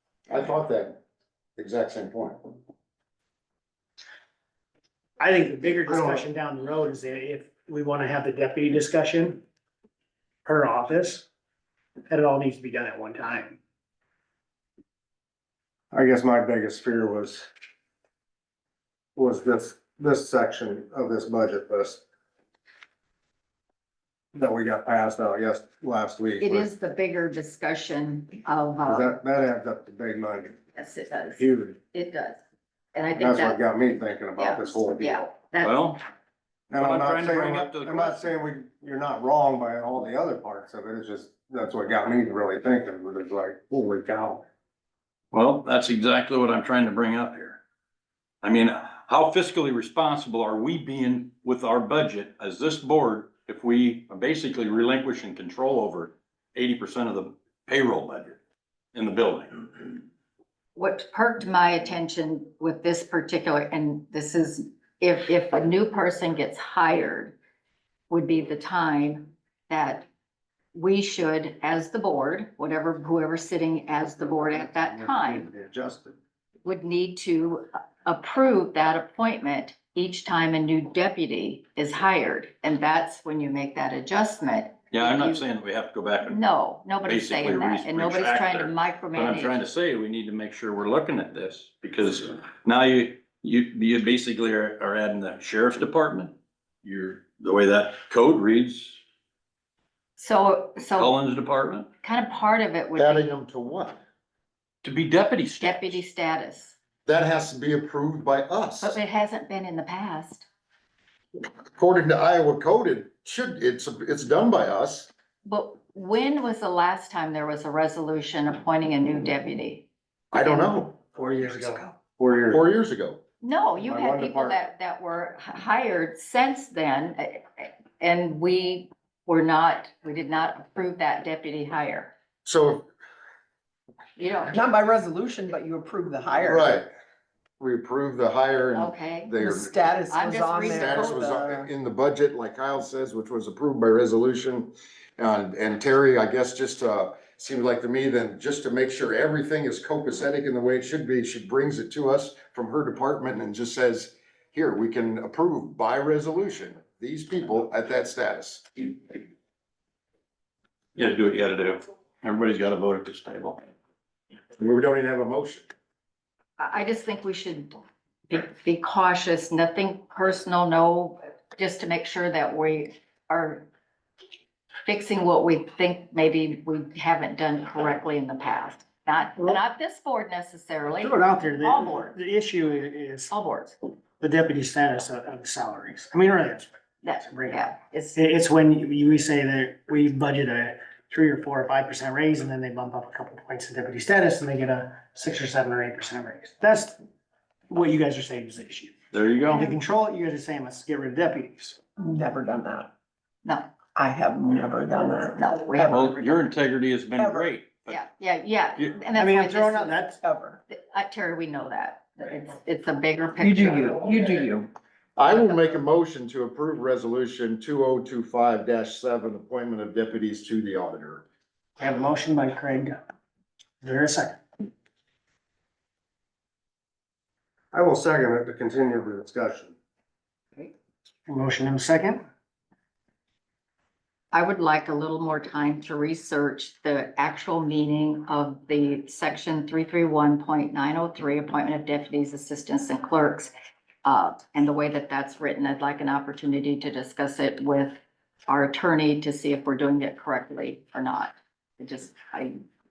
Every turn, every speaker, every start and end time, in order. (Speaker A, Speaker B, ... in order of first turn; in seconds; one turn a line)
Speaker A: 0.3-1.0
Speaker A: 1.6-2.5
Speaker B: 5.2-9.4
Speaker C: 5.8-6.2
Speaker B: 10.4-11.2
Speaker B: 12.1-13.6
Speaker C: 15.9-17.5
Speaker C: 19.1-22.0
Speaker C: 24.3-26.7
Speaker D: 26.4-29.1
Speaker C: 28.9-30.6
Speaker D: 30.7-32.4
Speaker C: 31.4-31.8
Speaker D: 32.9-33.6
Speaker C: 33.1-35.3
Speaker D: 34.4-35.9
Speaker E: 35.6-36.0
Speaker C: 36.7-44.4
Speaker E: 36.7-38.3
Speaker E: 45.3-47.6
Speaker E: 48.4-58.4
Speaker E: 58.9-60.0
Speaker D: 60.7-67.3
Speaker D: 68.1-70.1
Speaker D: 70.7-75.5
Speaker C: 74.4-76.1
Speaker D: 76.6-85.4
Speaker E: 84.9-86.4
Speaker D: 86.3-89.6
Speaker E: 87.0-99.0
Speaker D: 100.2-101.2
Speaker E: 101.0-101.9
Speaker D: 102.0-103.3
Speaker A: 102.9-104.0
Speaker E: 104.8-106.0
Speaker D: 105.6-106.7
Speaker A: 107.0-109.0
Speaker D: 108.8-110.5
Speaker A: 111.7-115.1
Speaker D: 115.4-119.8
Speaker A: 120.3-121.8
Speaker C: 121.2-122.6
Speaker A: 122.5-123.2
Speaker D: 123.4-132.1
Speaker C: 123.8-124.6
Speaker A: 132.4-132.8
Speaker D: 134.2-134.6
Speaker F: 134.5-136.8
Speaker A: 136.4-136.9
Speaker A: 137.6-139.8
Speaker D: 138.7-139.3
Speaker F: 139.3-141.7
Speaker D: 140.1-141.2
Speaker A: 140.7-158.9
Speaker E: 160.9-163.6
Speaker A: 164.6-165.7
Speaker D: 166.6-167.7
Speaker D: 168.3-173.7
Speaker D: 174.8-182.1
Speaker B: 180.8-183.3
Speaker D: 183.3-183.8
Speaker B: 184.2-197.0
Speaker D: 187.0-188.2
Speaker B: 197.7-198.9
Speaker E: 199.1-199.7
Speaker B: 199.5-201.8
Speaker F: 202.0-202.9
Speaker D: 203.4-203.7
Speaker F: 203.9-206.2
Speaker D: 205.3-206.4
Speaker E: 205.9-208.0
Speaker F: 207.2-207.5
Speaker D: 207.9-210.1
Speaker B: 209.1-210.2
Speaker F: 210.2-210.6
Speaker D: 210.7-214.1
Speaker F: 213.4-214.7
Speaker A: 215.2-221.2
Speaker B: 221.8-223.0
Speaker B: 223.8-224.4
Speaker C: 227.7-229.7
Speaker B: 231.2-232.2
Speaker D: 234.3-243.5
Speaker D: 244.0-252.6